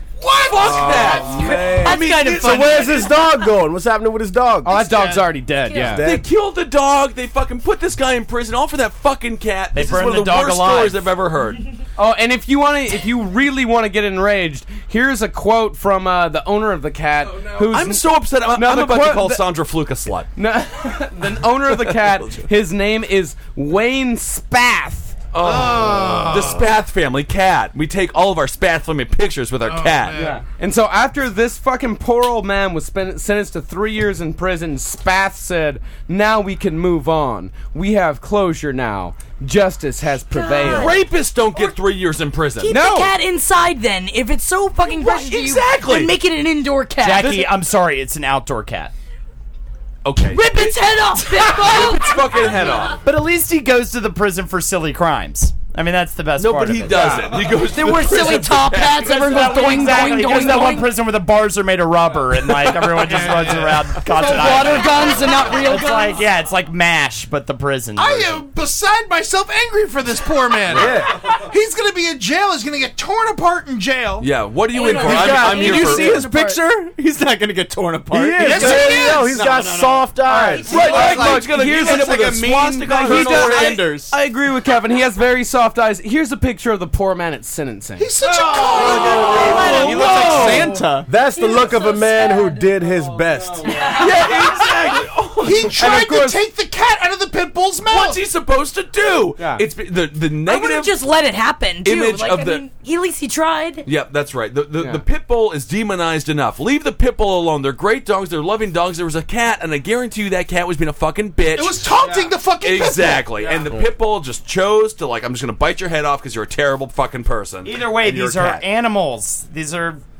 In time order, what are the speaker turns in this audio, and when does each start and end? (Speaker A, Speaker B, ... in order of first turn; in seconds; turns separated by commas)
Speaker A: 0.2-3.1, Speaker B: 0.4-3.0, Speaker C: 0.6-4.7, Speaker D: 0.9-3.3, Speaker E: 4.6-6.0, Speaker D: 5.5-6.0, Speaker C: 5.8-6.2, Speaker B: 6.0-11.6, Speaker F: 9.7-11.1, Speaker E: 12.0-19.4, Speaker B: 17.4-20.3, Speaker E: 20.4-25.2, Speaker B: 21.7-22.4, Speaker B: 25.3-30.4, Speaker A: 25.4-26.7, Speaker A: 29.6-30.4, Speaker E: 30.2-41.0, Speaker D: 40.3-41.7, Speaker B: 40.6-42.8, Speaker D: 42.6-47.4, Speaker E: 42.7-43.1, Speaker B: 44.8-46.1, Speaker F: 47.0-48.9, Speaker B: 47.2-47.5, Speaker B: 50.0-53.0, Speaker D: 50.2-52.9, Speaker F: 53.0-57.3, Speaker B: 56.4-59.4, Speaker D: 57.6-60.9, Speaker F: 59.0-68.4, Speaker A: 62.8-64.0, Speaker D: 64.0-66.2, Speaker A: 68.0-74.3, Speaker B: 70.7-71.0, Speaker C: 70.7-71.1, Speaker B: 74.2-76.2, Speaker D: 74.7-76.2, Speaker G: 75.0-84.1, Speaker C: 75.1-75.7, Speaker C: 78.1-80.7, Speaker A: 78.4-79.3, Speaker F: 78.7-80.6, Speaker D: 80.5-81.3, Speaker B: 80.6-83.8, Speaker E: 80.7-88.1, Speaker A: 88.0-90.1, Speaker D: 88.6-90.3, Speaker B: 88.7-90.8, Speaker C: 88.8-89.8, Speaker E: 89.6-90.6, Speaker G: 89.7-91.1, Speaker C: 91.0-93.8, Speaker D: 91.1-92.8, Speaker D: 93.6-94.3, Speaker B: 93.7-95.8, Speaker A: 95.4-98.2, Speaker E: 95.8-96.4, Speaker B: 97.9-101.0, Speaker D: 100.4-103.8, Speaker B: 101.8-102.6, Speaker B: 103.8-111.9, Speaker A: 111.5-113.6, Speaker G: 112.0-112.3, Speaker B: 112.6-118.6, Speaker F: 117.6-120.0